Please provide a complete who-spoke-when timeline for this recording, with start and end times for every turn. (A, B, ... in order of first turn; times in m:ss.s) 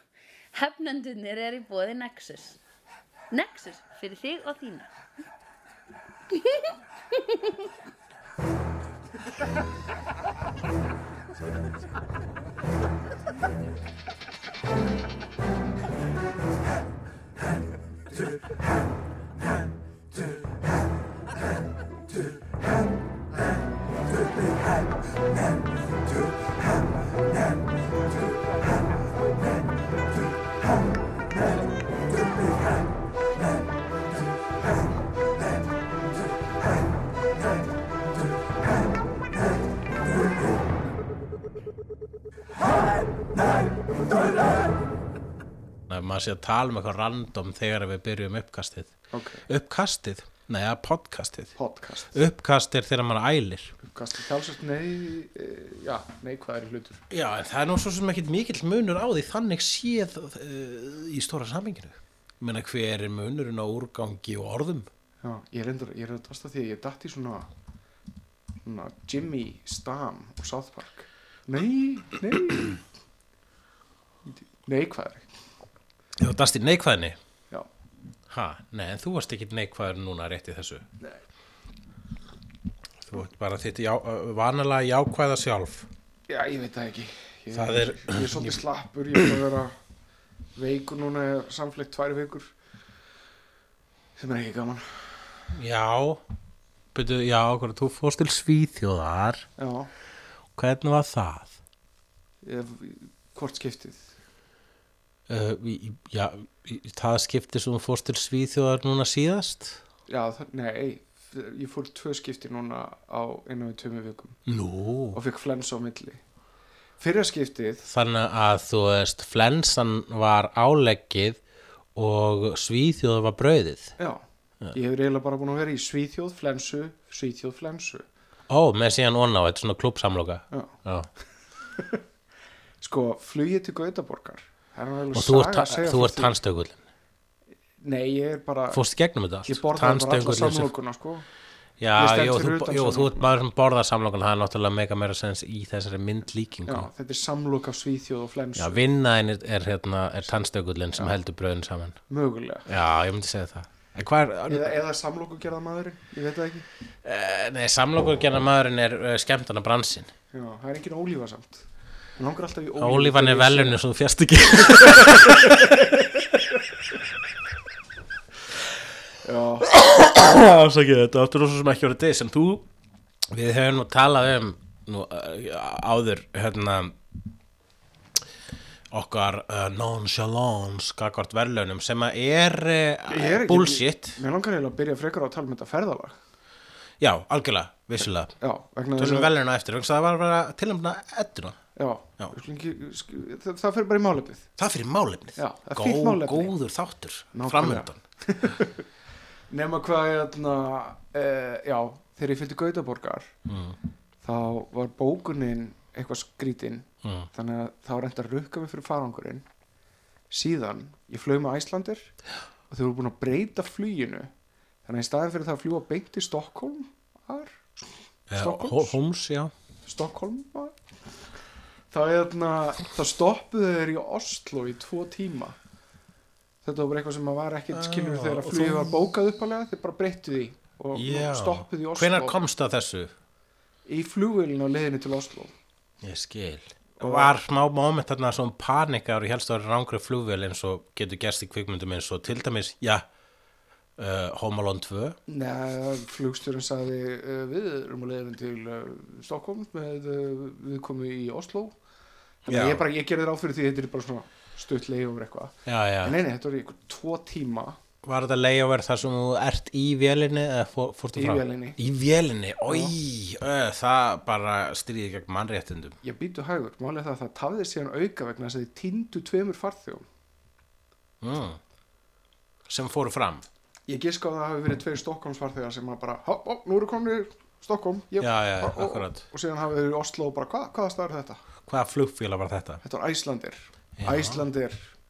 0:00.5-0:02.6 A
0:03.3-0:04.9 A
0:06.3-0:07.6 A
0:45.9-0:49.0 B
0:49.1-0:49.4 C
0:49.5-0:51.5 B
0:51.6-0:52.2 C
0:52.1-0:53.7 B
0:53.8-0:57.0 C
0:57.1-1:04.9 B
1:05.2-1:07.5 C
1:08.6-1:12.8 C
1:14.3-1:15.3 C
1:16.2-1:17.2 B
1:18.3-1:20.9 B
1:23.0-1:25.9 B
1:26.3-1:29.7 C
1:27.5-1:28.6 B
1:30.6-1:32.5 C
1:34.2-1:35.2 C
1:35.5-1:36.2 B
1:36.9-1:39.5 B
1:39.6-1:39.9 C
1:40.6-1:41.6 B
1:42.4-1:44.1 C
1:45.3-1:49.8 B
1:50.1-1:54.4 C
1:54.4-1:55.2 B
1:55.1-1:56.2 C
1:57.0-1:57.9 C
1:57.9-2:01.4 B
2:01.9-2:03.9 B
2:04.0-2:08.0 C
2:08.5-2:11.1 B
2:12.8-2:16.4 C
2:15.1-2:16.8 B
2:17.8-2:18.8 C
2:18.7-2:20.7 B
2:19.5-2:21.3 C
2:21.8-2:26.9 B
2:22.0-2:23.3 C
2:26.7-2:28.9 C
2:28.6-2:32.0 B
2:32.1-2:32.7 C
2:32.7-2:34.7 B
2:34.5-2:36.7 C
2:37.0-2:40.1 B
2:40.3-2:41.7 C
2:42.2-2:43.8 C
2:42.8-2:46.0 B
2:45.0-2:45.7 C
2:49.2-2:49.7 C
2:49.6-2:52.7 B
2:53.3-2:57.0 B
2:58.9-3:04.2 B
3:03.1-3:06.2 C
3:07.0-3:08.3 B
3:08.4-3:09.3 C
3:09.0-3:11.6 B
3:11.8-3:14.5 C
3:14.6-3:18.0 B
3:15.4-3:16.5 C
3:17.3-3:18.8 C
3:19.5-3:23.3 C
3:23.5-3:23.8 B
3:24.2-3:29.4 C
3:27.0-3:27.3 B
3:30.3-3:32.1 C
3:32.7-3:34.3 C
3:34.9-3:37.6 C
3:38.3-3:39.5 B
3:38.3-3:39.0 C
3:39.9-3:40.8 C
3:41.9-3:45.6 C
3:46.6-3:52.4 C
3:47.7-3:49.0 B
3:50.9-3:53.1 B
3:53.9-3:55.5 C
3:56.0-4:03.0 B
3:57.0-3:57.4 C
4:04.0-4:05.2 B
4:05.3-4:11.8 C
4:12.4-4:17.8 C
4:12.4-4:12.8 B
4:15.7-4:16.2 B
4:18.0-4:26.0 B
4:21.2-4:21.8 C
4:22.7-4:22.9 C
4:26.0-4:30.1 C
4:31.2-4:31.6 B
4:32.7-4:33.5 B
4:33.9-4:41.4 C
4:38.2-4:39.2 B
4:41.7-4:42.8 B
4:42.8-4:44.9 C
4:44.0-4:44.4 B